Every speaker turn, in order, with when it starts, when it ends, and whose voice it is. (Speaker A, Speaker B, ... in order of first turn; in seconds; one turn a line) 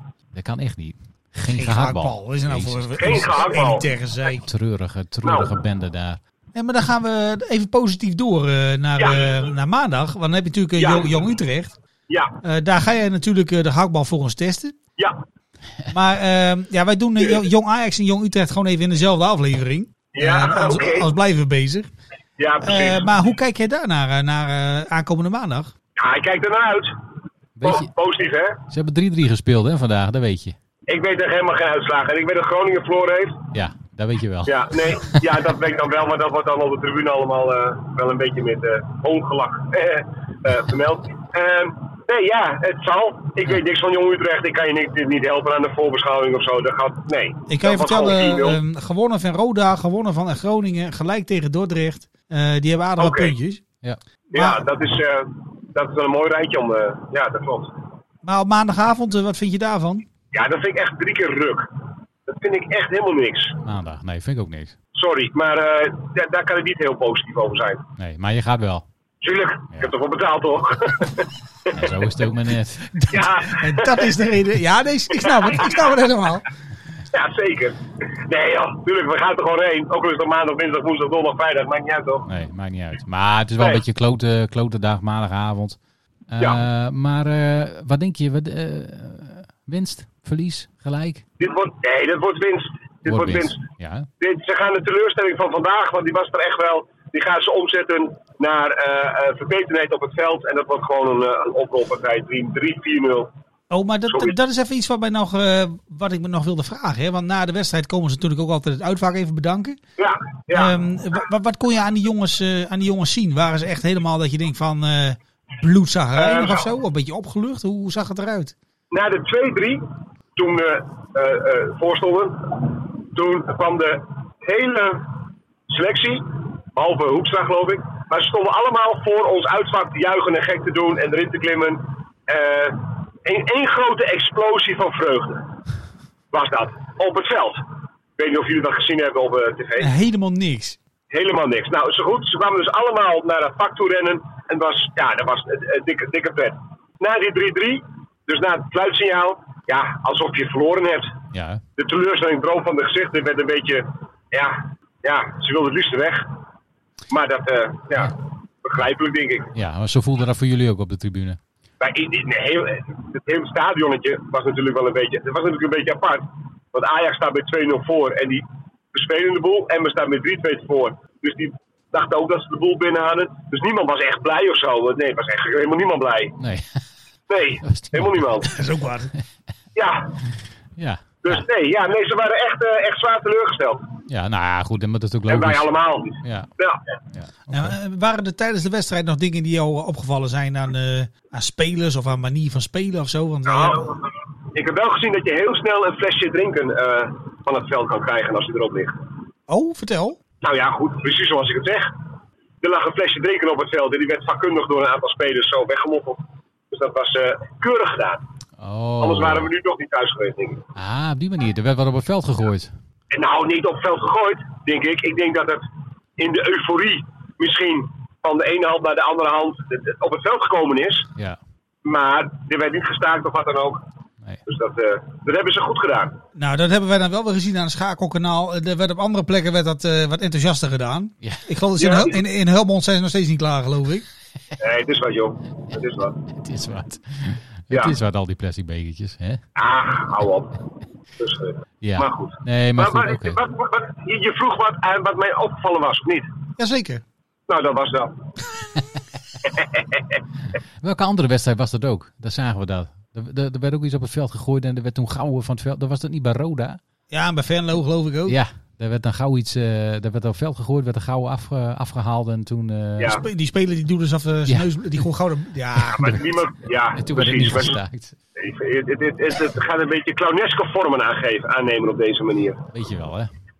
Speaker A: 0.3-3.3
Speaker B: 1.5-4.4
Speaker C: 3.0-3.9
Speaker A: 4.4-6.2
Speaker C: 5.2-5.5
Speaker B: 6.5-11.7
Speaker C: 9.0-9.4
Speaker C: 10.8-11.1
Speaker C: 12.1-12.3
Speaker B: 12.4-14.7
Speaker B: 15.9-21.9
Speaker C: 20.1-21.1
Speaker C: 22.4-23.1
Speaker B: 22.6-25.7
Speaker C: 26.0-26.9
Speaker A: 27.6-27.9
Speaker C: 27.6-28.6
Speaker A: 28.7-30.6
Speaker C: 30.9-33.4
Speaker A: 33.5-35.4
Speaker C: 34.5-48.6
Speaker B: 47.5-53.6
Speaker C: 53.0-53.3
Speaker C: 54.3-57.7
Speaker B: 54.3-54.6
Speaker B: 58.2-60.1
Speaker C: 60.3-61.7
Speaker C: 62.3-63.6
Speaker A: 63.6-64.7
Speaker C: 64.9-67.8
Speaker A: 68.0-68.8
Speaker C: 69.2-71.8
Speaker A: 71.7-73.1
Speaker C: 73.1-74.1
Speaker B: 73.1-76.4
Speaker C: 75.2-75.8
Speaker C: 77.1-82.2
Speaker A: 82.2-85.8
Speaker A: 86.3-91.2
Speaker C: 91.4-93.6
Speaker A: 93.0-94.1
Speaker C: 94.2-103.3
Speaker B: 103.7-109.8
Speaker C: 104.1-104.3
Speaker C: 110.0-110.7
Speaker B: 110.5-118.5
Speaker C: 116.2-116.7
Speaker C: 118.9-119.8
Speaker C: 120.3-125.0
Speaker C: 125.7-135.5
Speaker C: 136.3-137.6
Speaker C: 138.2-139.9
Speaker B: 139.8-140.8
Speaker C: 141.1-151.2
Speaker A: 151.3-151.6
Speaker C: 151.8-156.2
Speaker C: 157.1-159.5
Speaker A: 159.5-161.4
Speaker C: 161.8-176.4
Speaker A: 176.4-176.8
Speaker C: 177.3-178.5
Speaker A: 177.6-178.4
Speaker B: 178.4-179.1
Speaker C: 179.7-180.1
Speaker A: 180.8-181.4
Speaker C: 181.2-183.9
Speaker A: 184.1-185.7
Speaker C: 185.3-186.8
Speaker A: 186.2-186.5
Speaker A: 187.1-187.7
Speaker B: 187.5-193.9
Speaker C: 193.5-194.0
Speaker C: 194.5-199.0
Speaker B: 199.5-200.2
Speaker C: 200.4-201.9
Speaker C: 202.6-208.2
Speaker A: 208.6-209.5
Speaker C: 209.0-210.7
Speaker A: 210.7-212.8
Speaker C: 213.1-215.6
Speaker C: 216.2-221.1
Speaker C: 221.8-223.8
Speaker C: 224.5-226.2
Speaker B: 226.3-234.0
Speaker C: 231.8-232.2
Speaker C: 234.6-236.2
Speaker A: 236.3-239.4
Speaker C: 239.6-240.5
Speaker C: 241.2-246.3
Speaker A: 241.8-243.4
Speaker B: 246.6-247.0
Speaker C: 247.5-248.1
Speaker C: 249.5-250.0
Speaker A: 250.8-256.8
Speaker B: 257.1-258.4
Speaker A: 258.3-263.2
Speaker B: 263.1-266.2
Speaker A: 265.9-266.1
Speaker C: 265.9-267.8
Speaker A: 266.9-268.2
Speaker C: 268.4-272.6
Speaker A: 272.7-273.3